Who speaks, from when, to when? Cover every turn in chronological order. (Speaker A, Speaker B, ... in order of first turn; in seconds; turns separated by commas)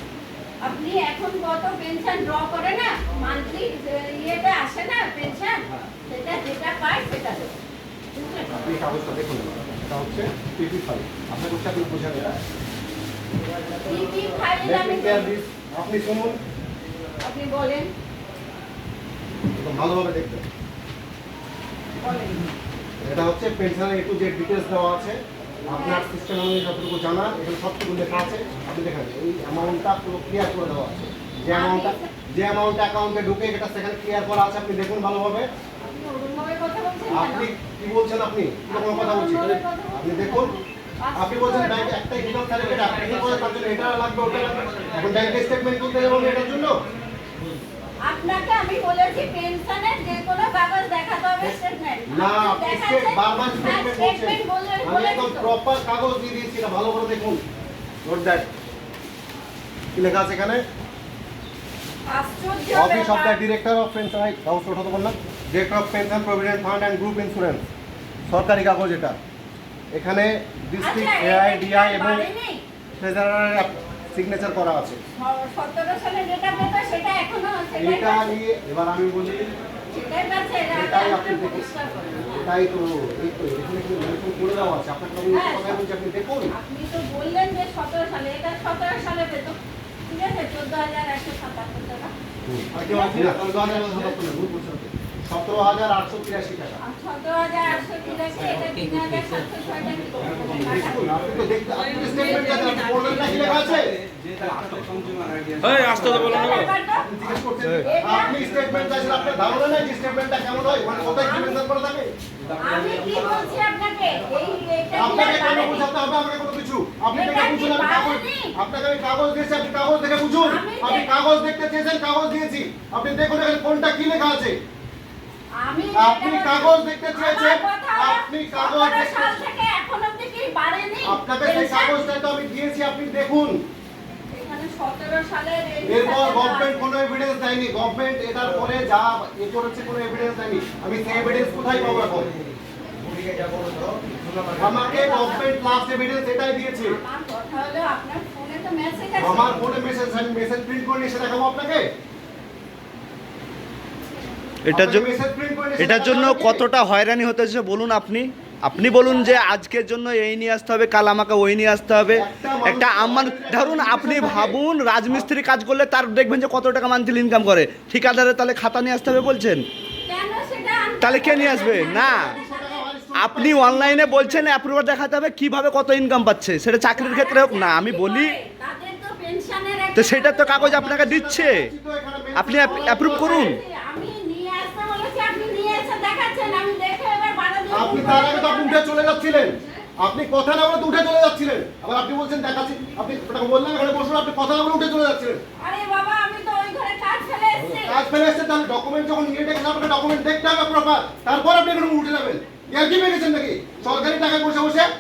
Speaker A: 0.6-7.5, Speaker A: 8.2-8.6, Speaker B: 8.5-12.4, Speaker A: 13.8-15.4, Speaker B: 14.6-16.4, Speaker A: 17.2-17.9, Speaker B: 19.5-20.4, Speaker A: 22.0-22.4, Speaker B: 23.0-35.5, Speaker A: 25.7-26.1, Speaker A: 31.5-32.1, Speaker A: 35.9-37.5, Speaker B: 37.1-40.5, Speaker A: 38.7-42.0, Speaker B: 41.2-46.8, Speaker A: 48.0-55.5, Speaker B: 52.1-57.4, Speaker B: 58.0-58.5, Speaker B: 59.9-60.6, Speaker A: 62.1-63.4, Speaker B: 62.7-67.7, Speaker B: 68.3-69.2, Speaker B: 69.9-72.3, Speaker A: 70.8-72.6, Speaker B: 73.0-75.0, Speaker A: 75.2-78.3, Speaker B: 77.8-79.5, Speaker A: 79.9-82.5, Speaker B: 80.7-81.7, Speaker B: 82.4-86.5, Speaker A: 85.3-85.8, Speaker A: 86.5-92.1, Speaker B: 92.5-96.8, Speaker A: 92.8-93.4, Speaker C: 93.1-94.0, Speaker A: 96.8-101.2, Speaker B: 100.7-104.0, Speaker A: 102.0-103.4, Speaker C: 103.5-106.2, Speaker B: 106.0-106.4, Speaker A: 106.1-107.1, Speaker B: 107.0-112.1, Speaker A: 107.7-108.5, Speaker A: 111.1-111.6, Speaker A: 112.6-115.9, Speaker B: 114.9-124.6, Speaker A: 117.1-118.5, Speaker A: 120.4-121.1, Speaker A: 125.6-132.0, Speaker B: 126.0-129.3, Speaker B: 131.0-133.6, Speaker A: 134.3-136.8, Speaker B: 135.8-142.3, Speaker D: 143.1-143.8, Speaker C: 143.5-144.3, Speaker B: 144.6-147.0, Speaker A: 144.8-145.5, Speaker A: 146.8-149.7, Speaker B: 149.2-151.9, Speaker D: 154.7-155.1, Speaker B: 154.7-156.7, Speaker D: 155.8-169.7, Speaker A: 158.7-159.4, Speaker B: 162.1-164.6, Speaker A: 170.1-172.9, Speaker D: 171.0-172.4, Speaker B: 171.2-174.5, Speaker D: 173.2-178.4, Speaker A: 176.9-180.9, Speaker D: 180.0-181.7, Speaker B: 180.5-183.5, Speaker D: 182.3-183.6, Speaker A: 182.6-189.8, Speaker B: 187.7-195.4, Speaker A: 195.6-198.1, Speaker B: 197.8-204.9